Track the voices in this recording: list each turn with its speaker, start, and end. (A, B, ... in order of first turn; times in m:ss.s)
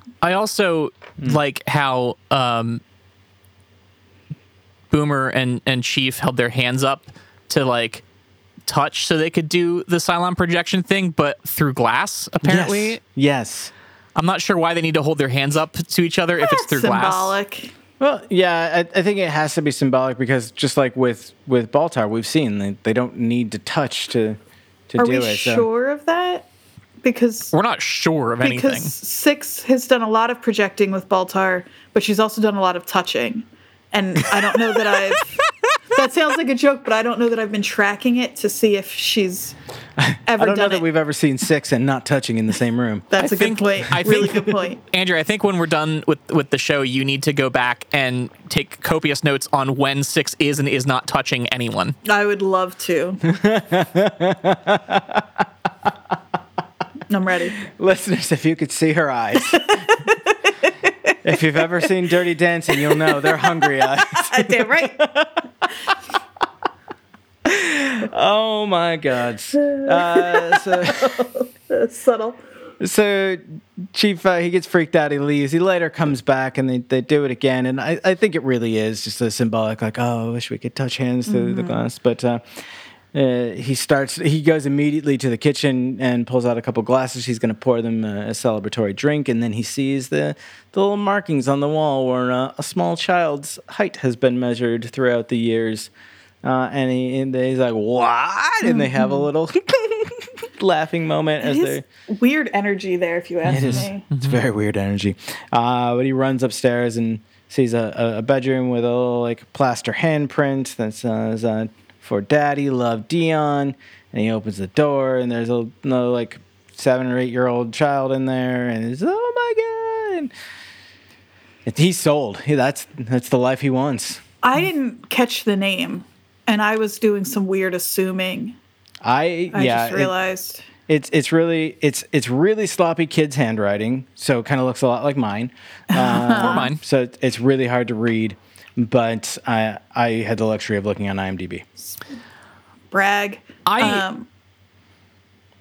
0:00.2-0:02.8 A
0:04.9-0:08.0 A
0:08.6-0:13.0 A
0:12.4-0:13.7 B
0:14.2-0:17.4 A
0:16.4-0:17.7 C
0:18.0-0:24.4 B
0:24.9-0:25.7 B
0:25.0-0:26.5 C
0:27.0-0:27.5 C
0:27.5-0:28.9 A
0:28.4-0:39.6 C
0:40.0-0:43.1 B
0:40.3-0:40.8 C
0:43.1-0:44.8 C
0:43.2-0:52.0 A
0:52.0-0:53.2 C
0:53.2-0:55.4 B
0:57.1-0:57.6 C
0:57.6-0:59.8 B
0:59.5-1:00.1 C
1:01.2-1:05.4 B
1:02.8-1:05.0 C
1:07.4-1:11.2 B
1:09.6-1:12.4 C
1:12.8-1:22.6 B
1:21.2-1:21.8 C
1:23.1-1:35.9 B
1:36.4-1:41.8 B
1:38.6-1:39.3 C
1:41.4-1:44.0 C
1:43.4-1:44.4 A
1:43.4-2:00.3 B
2:01.6-2:04.2 B
2:04.4-2:08.6 C
2:09.0-2:10.1 B
2:09.5-2:10.6 C
2:10.9-2:21.6 B
2:15.9-2:16.7 C
2:16.3-2:16.8 A
2:22.9-2:24.3 C
2:23.6-2:24.0 A